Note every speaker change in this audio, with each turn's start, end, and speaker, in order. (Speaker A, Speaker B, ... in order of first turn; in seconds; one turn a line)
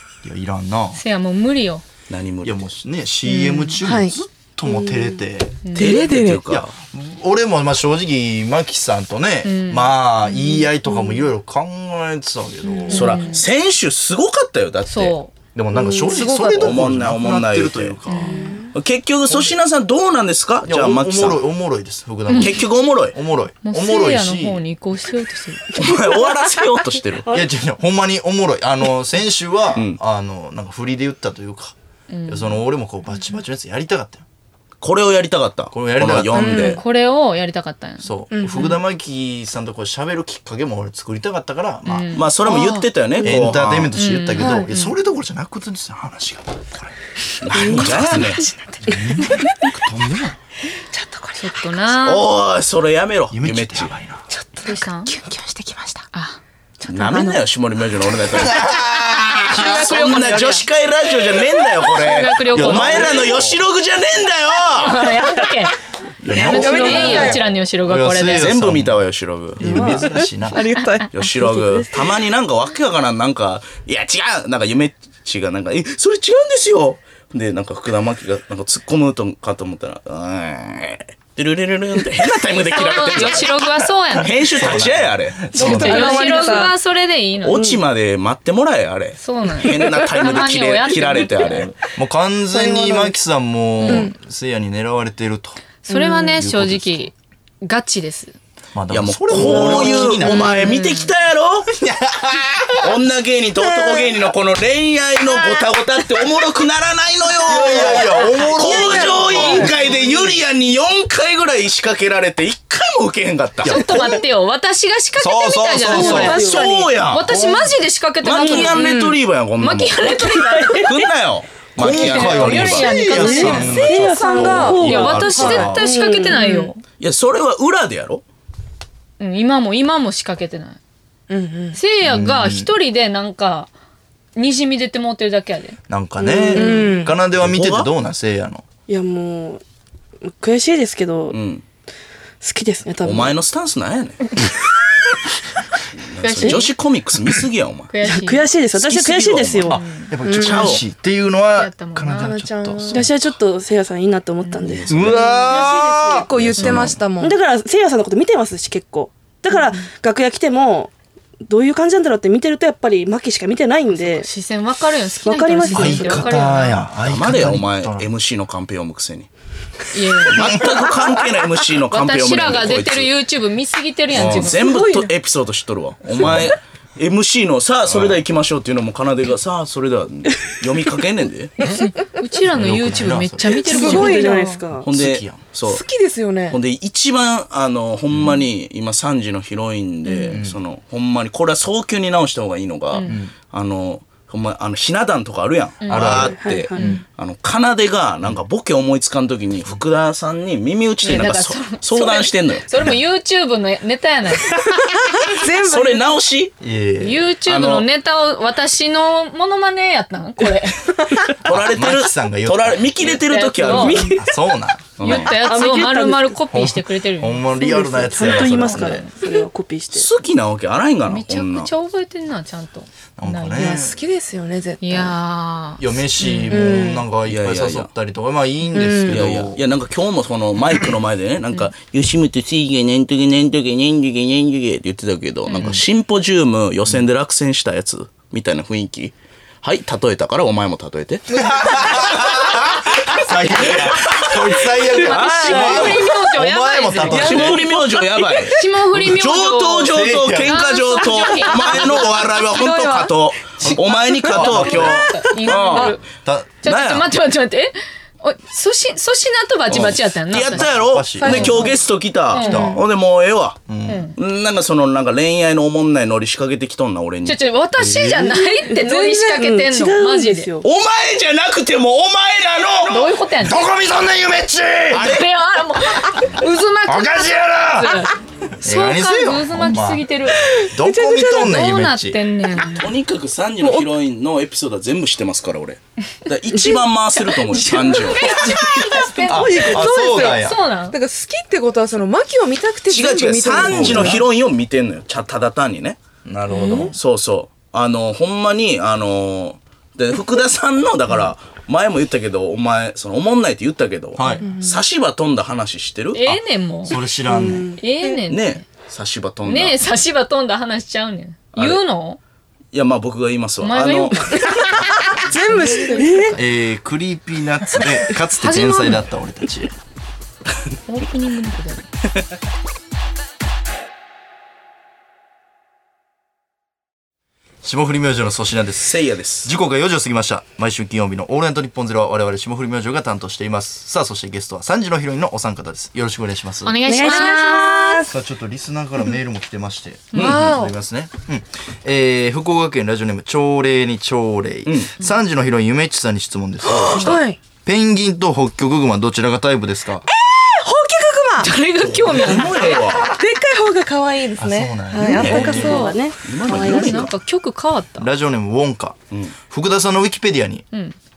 Speaker A: 0.2-1.0
Speaker B: 0.9-1.8
Speaker C: 2.1-2.6
Speaker A: 2.4-5.6
Speaker D: 3.4-4.1
Speaker E: 4.6-5.2
Speaker B: 5.6-6.0
Speaker C: 5.7-6.7
Speaker D: 5.8-6.4
Speaker A: 6.5-13.3
Speaker B: 9.4-10.5
Speaker B: 12.9-13.4
Speaker C: 12.9-15.2
Speaker B: 14.9-15.3
Speaker A: 15.5-18.4
Speaker D: 15.8-16.7
Speaker C: 16.5-18.0
Speaker B: 18.1-18.6
Speaker D: 18.2-18.7
Speaker C: 18.7-21.4
Speaker A: 20.6-24.6
Speaker C: 22.3-23.1
Speaker B: 23.6-25.7
Speaker C: 25.7-27.3
Speaker A: 27.3-31.7
Speaker B: 32.1-32.6
Speaker A: 32.3-34.2
Speaker C: 34.8-36.8
Speaker A: 35.7-36.8
Speaker D: 36.3-36.8
Speaker B: 36.4-38.1
Speaker A: 38.0-42.2
Speaker D: 38.3-38.8
Speaker B: 41.9-42.7
Speaker C: 42.1-43.9
Speaker D: 42.5-42.8
Speaker A: 43.2-46.9
Speaker B: 43.9-44.9
Speaker D: 44.4-44.7
Speaker C: 47.4-48.4
Speaker A: 47.5-50.4
Speaker B: 48.0-48.5
Speaker D: 49.3-49.7
Speaker D: 50.9-51.7
Speaker B: 51.4-52.3
Speaker C: 52.0-53.9
Speaker A: 53.3-54.2
Speaker D: 54.3-56.0
Speaker B: 54.6-55.1
Speaker B: 56.1-56.4
Speaker C: 56.9-65.2
Speaker B: 56.9-57.3
Speaker D: 57.0-57.4
Speaker A: 58.4-58.8
Speaker B: 59.4-60.6
Speaker B: 61.8-63.3
Speaker A: 62.5-63.6
Speaker B: 64.8-65.8
Speaker A: 66.2-69.0
Speaker B: 66.3-68.5
Speaker D: 66.3-67.4
Speaker C: 68.3-69.9
Speaker A: 69.6-70.7
Speaker E: 69.6-70.1
Speaker D: 69.7-71.9
Speaker C: 71.1-83.6
Speaker B: 82.7-84.7
Speaker C: 84.1-85.7
Speaker A: 84.5-86.4
Speaker D: 85.5-86.8
Speaker B: 85.5-87.6
Speaker C: 87.4-91.7
Speaker E: 87.5-87.8
Speaker B: 89.2-91.7
Speaker A: 91.9-95.6
Speaker D: 92.5-93.1
Speaker B: 93.8-94.1
Speaker D: 93.8-94.1
Speaker B: 95.8-98.3
Speaker D: 95.9-96.3
Speaker A: 96.3-97.1
Speaker A: 98.7-100.6
Speaker C: 98.9-101.7
Speaker E: 99.4-100.0
Speaker B: 99.6-101.1
Speaker A: 101.7-102.9
Speaker C: 102.8-113.9
Speaker A: 107.4-109.9
Speaker B: 108.0-108.5
Speaker E: 108.7-110.0
Speaker D: 108.7-109.7
Speaker A: 113.6-114.2
Speaker B: 113.6-121.0
Speaker A: 115.2-116.5
Speaker E: 115.8-116.9
Speaker C: 116.0-117.3
Speaker A: 117.2-117.7
Speaker C: 118.2-120.1
Speaker E: 118.4-118.8
Speaker D: 118.8-119.2
Speaker E: 120.2-120.9
Speaker C: 120.7-123.0
Speaker A: 121.8-125.9
Speaker B: 121.8-123.9
Speaker E: 123.1-126.7
Speaker D: 123.3-125.6
Speaker B: 124.7-126.8
Speaker D: 126.3-126.7
Speaker C: 127.0-128.2
Speaker B: 129.2-130.8
Speaker D: 131.3-131.8
Speaker B: 131.7-133.7
Speaker A: 132.0-132.7
Speaker B: 134.3-135.8
Speaker A: 135.9-138.6
Speaker E: 136.2-136.9
Speaker D: 136.5-137.2
Speaker C: 137.3-137.9
Speaker E: 138.9-139.6
Speaker E: 140.2-141.4
Speaker C: 141.3-141.6
Speaker E: 142.4-143.3
Speaker C: 143.0-144.3
Speaker C: 145.9-147.9
Speaker B: 146.2-146.7
Speaker B: 147.9-148.4
Speaker E: 148.0-149.8
Speaker C: 148.7-149.8
Speaker A: 149.7-153.1
Speaker D: 150.2-150.8
Speaker C: 150.3-150.8
Speaker B: 151.6-152.3
Speaker D: 152.1-153.0
Speaker E: 152.9-156.3
Speaker C: 154.6-155.3
Speaker A: 154.9-157.0
Speaker D: 155.1-157.4
Speaker C: 156.4-157.0
Speaker E: 157.2-160.9
Speaker E: 161.5-164.3
Speaker B: 163.9-166.8
Speaker E: 165.2-166.4
Speaker A: 165.7-168.1
Speaker C: 167.1-169.3
Speaker B: 169.9-170.8
Speaker C: 170.2-173.1
Speaker B: 171.9-174.6
Speaker C: 174.1-181.6
Speaker A: 174.1-174.5
Speaker D: 174.5-175.1
Speaker A: 176.2-176.5
Speaker A: 177.9-178.2
Speaker B: 181.6-184.3
Speaker A: 182.5-183.6
Speaker E: 183.4-184.9
Speaker D: 183.6-184.6
Speaker C: 184.8-185.8
Speaker A: 184.8-185.4
Speaker D: 185.7-186.6
Speaker C: 186.5-202.7
Speaker B: 190.1-190.4
Speaker A: 190.3-190.6
Speaker B: 192.9-193.2
Speaker A: 193.1-193.3
Speaker B: 195.8-197.0
Speaker A: 195.9-197.0
Speaker E: 196.3-196.8
Speaker B: 201.0-204.9
Speaker D: 204.9-206.1
Speaker C: 205.4-206.5
Speaker A: 206.6-207.3
Speaker B: 207.0-211.2
Speaker C: 207.4-207.8
Speaker C: 211.4-214.1
Speaker A: 211.4-213.0
Speaker B: 213.0-214.2
Speaker E: 213.7-214.3
Speaker A: 214.1-214.8
Speaker C: 215.0-215.3
Speaker B: 215.0-217.5
Speaker E: 215.3-216.3
Speaker A: 216.5-219.1
Speaker E: 217.6-220.1
Speaker C: 219.9-221.7
Speaker B: 221.1-223.8
Speaker A: 223.2-224.0
Speaker D: 223.5-225.1
Speaker B: 224.8-226.9
Speaker A: 225.8-229.6
Speaker D: 226.4-227.1
Speaker C: 227.2-227.9
Speaker D: 228.7-229.2
Speaker C: 229.1-242.6
Speaker B: 235.5-235.8
Speaker A: 235.6-235.8
Speaker B: 241.3-247.6
Speaker A: 241.3-247.7
Speaker C: 243.7-244.4
Speaker D: 245.0-245.7
Speaker C: 245.1-246.0
Speaker D: 247.1-248.5
Speaker C: 247.1-256.0
Speaker B: 248.4-252.3
Speaker A: 249.9-250.6
Speaker D: 251.2-253.1
Speaker A: 253.6-255.2
Speaker B: 253.7-256.0
Speaker D: 255.6-255.8
Speaker A: 256.1-256.5
Speaker B: 256.6-261.7
Speaker C: 256.6-257.1
Speaker C: 259.7-263.6
Speaker A: 260.4-261.7
Speaker D: 261.2-261.8
Speaker B: 262.3-262.8
Speaker D: 262.4-262.8
Speaker A: 262.4-262.8
Speaker A: 263.7-264.1
Speaker B: 263.9-264.1
Speaker C: 264.1-267.4
Speaker B: 267.2-270.5
Speaker A: 267.8-268.2
Speaker E: 268.6-270.6
Speaker C: 270.6-273.1
Speaker B: 272.9-273.6
Speaker A: 273.4-275.2
Speaker B: 274.9-280.4
Speaker C: 274.9-275.2
Speaker A: 276.8-278.1
Speaker A: 278.6-282.2
Speaker D: 280.4-281.5
Speaker B: 281.3-282.9
Speaker C: 282.6-288.3
Speaker D: 283.6-283.9
Speaker B: 287.5-291.0
Speaker D: 287.9-294.2
Speaker A: 289.3-290.6
Speaker C: 292.9-296.0
Speaker A: 293.5-294.2
Speaker A: 296.2-297.0
Speaker D: 296.5-296.9
Speaker C: 296.9-306.2
Speaker A: 304.1-304.4
Speaker D: 304.5-304.7
Speaker B: 306.1-307.0
Speaker A: 306.2-307.8
Speaker E: 307.3-307.8
Speaker B: 307.8-308.6
Speaker C: 308.3-309.8
Speaker B: 309.4-312.2
Speaker C: 311.5-311.8
Speaker C: 312.7-314.4
Speaker B: 313.6-316.4
Speaker D: 314.6-316.3
Speaker E: 315.9-316.4
Speaker A: 316.3-319.7
Speaker B: 318.4-319.0
Speaker B: 320.9-321.9
Speaker A: 327.6-337.3
Speaker C: 328.8-329.5
Speaker B: 336.6-338.1
Speaker E: 336.8-338.1
Speaker D: 337.1-337.6
Speaker A: 338.1-350.0
Speaker C: 340.1-340.4
Speaker B: 340.1-340.4
Speaker D: 340.1-340.7
Speaker C: 344.6-344.9
Speaker C: 346.7-347.1
Speaker D: 347.0-347.4
Speaker D: 350.1-351.5
Speaker B: 351.4-352.8
Speaker C: 351.8-353.1
Speaker D: 352.4-356.0
Speaker A: 354.4-355.9
Speaker E: 355.1-357.1
Speaker C: 355.1-357.1
Speaker B: 355.2-355.9
Speaker B: 356.5-358.1
Speaker A: 358.0-360.6